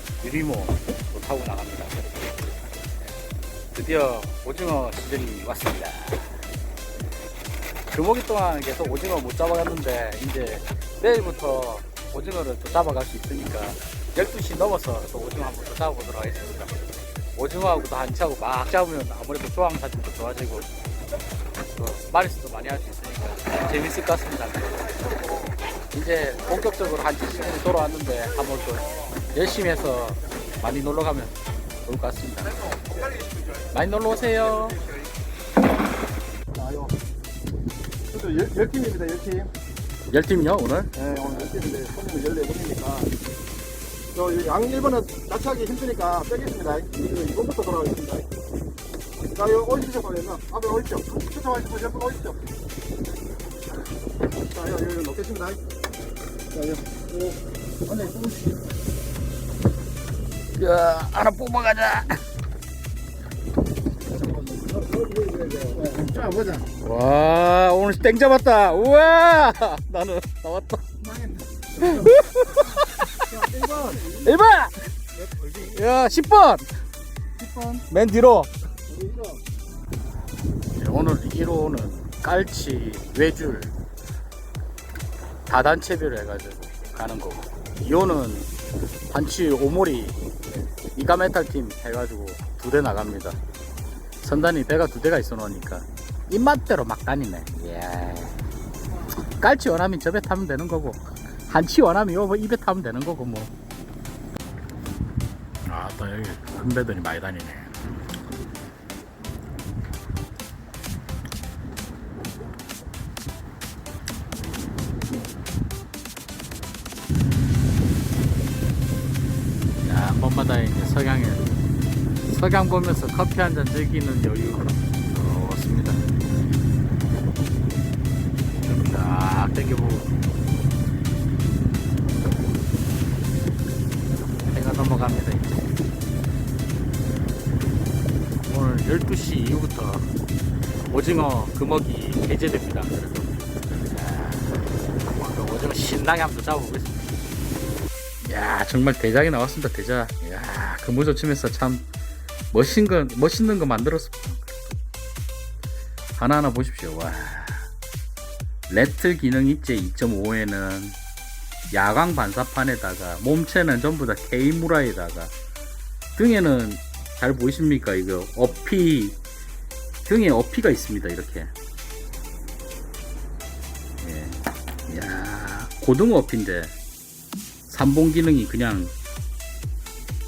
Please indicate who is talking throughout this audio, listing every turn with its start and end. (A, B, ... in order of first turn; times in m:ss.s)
0:00.2-0:02.2 A
0:03.7-0:06.4 A
0:07.9-0:16.7 A
0:17.3-0:20.7 A
0:21.7-0:25.0 A
0:25.9-0:31.3 A
0:31.8-0:32.6 A
0:33.7-0:34.8 A
0:36.6-0:36.9 B
0:38.1-0:39.5 B
0:40.1-0:40.9 A
0:41.0-0:43.1 B
0:44.1-0:48.2 B
0:49.3-0:52.4 B
0:54.6-0:55.6 B
0:58.0-0:58.3 B
1:00.5-1:02.2 A
1:05.2-1:06.3 B
1:06.8-1:10.9 A
1:11.8-1:13.2 A
1:13.4-1:14.0 B
1:13.9-1:14.8 A
1:15.4-1:16.7 A
1:17.9-1:18.5 A
1:20.7-1:23.7 A
1:25.5-1:28.5 A
1:29.1-1:30.2 A
1:30.9-1:33.4 A
1:34.2-1:38.4 A
1:39.4-1:43.5 A
1:45.6-1:47.8 A
1:59.8-2:01.5 A
2:02.2-2:06.0 A
2:08.7-2:10.1 A
2:14.5-2:15.7 A
2:18.4-2:20.1 A
2:20.9-2:27.0 A
2:28.2-2:31.9 A
2:32.5-2:34.8 A
2:36.2-2:37.7 A
2:38.7-2:41.0 A
2:41.7-2:45.3 A
2:46.2-2:49.2 A
2:50.1-2:51.5 A
2:54.0-2:56.8 A
2:57.7-2:58.9 A